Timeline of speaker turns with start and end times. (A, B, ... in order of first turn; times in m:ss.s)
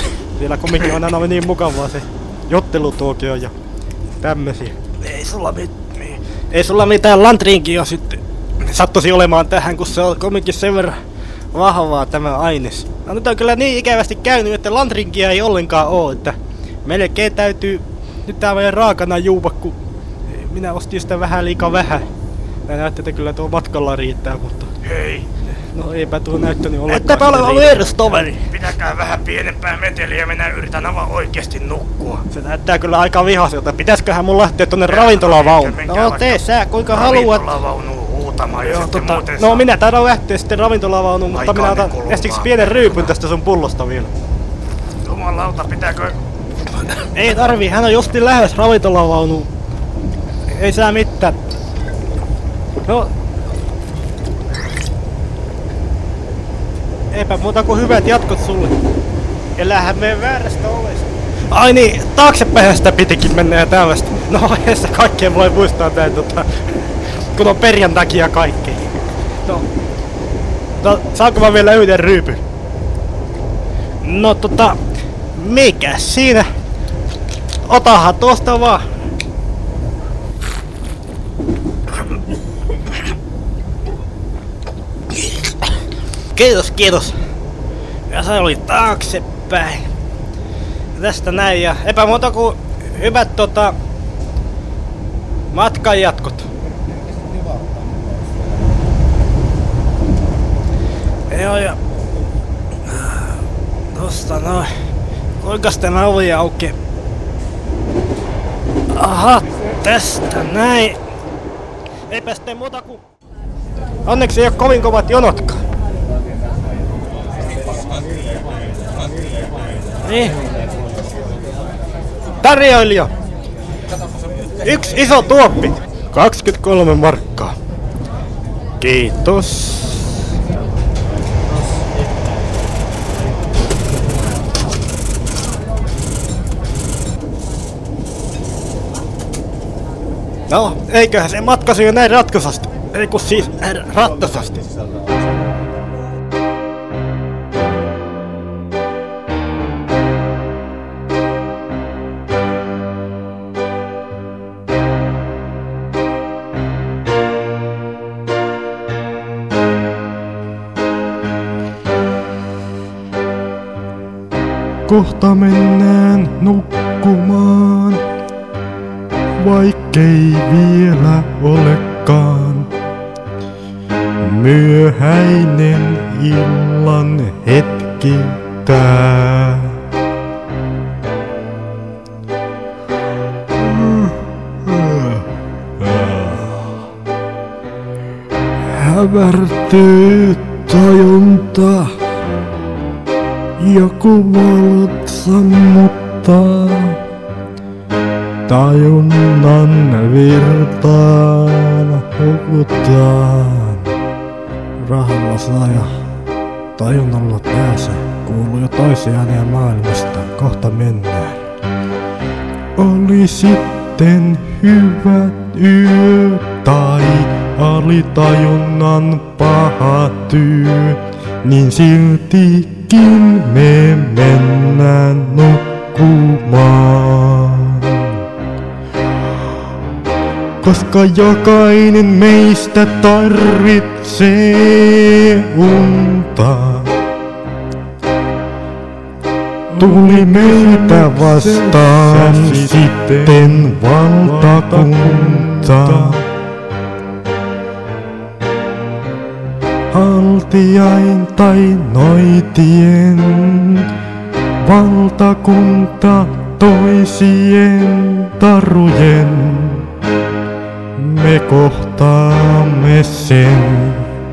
0:00.4-0:03.5 A
0:04.2-0:11.0 A
0:11.5-0:22.1 A
0:22.7-0:24.7 A
0:24.8-0:25.3 B
0:25.7-0:28.5 A
0:26.9-0:32.2 B
0:32.3-0:37.5 A
0:34.9-0:39.7 B
0:38.6-0:44.1 A
0:41.3-0:43.1 B
0:45.0-0:46.2 B
0:47.1-0:49.5 A
0:50.5-0:51.4 A
0:57.1-0:58.7 A
0:59.6-1:06.6 A
1:07.3-1:08.9 A
1:10.8-1:12.4 A
1:14.0-1:14.8 A
1:15.3-1:16.5 A
1:17.6-1:18.8 A
1:26.3-1:27.2 A
1:28.1-1:29.9 A
1:31.0-1:33.8 A
1:35.5-1:36.5 A
1:41.3-1:41.8 A
1:42.9-1:43.4 A
1:43.9-1:44.7 A
1:45.4-1:46.8 A
1:48.9-1:51.0 A
1:52.1-1:53.0 A
1:54.0-1:55.6 A
2:00.0-2:00.4 A
2:02.4-2:03.1 A
2:04.6-2:07.5 A
2:08.8-2:10.1 A
2:20.5-2:24.7 A
2:44.9-2:48.0 C
2:49.4-2:52.7 C
2:54.2-2:59.8 C
3:03.5-3:05.2 C
3:05.8-3:06.8 C
3:08.7-3:12.0 C
3:13.6-3:17.0 C
3:18.5-3:23.9 C
3:25.0-3:25.7 A
3:26.8-3:28.2 A
3:28.3-3:29.1 C
3:30.2-3:31.3 A
3:32.8-3:48.2 C
3:50.6-3:56.9 C
3:59.7-4:06.2 C
3:59.8-4:01.9 A
4:00.5-4:02.7 B
4:03.3-4:05.4 B
4:09.9-4:13.9 C
4:14.6-4:19.8 C
4:21.0-4:24.0 C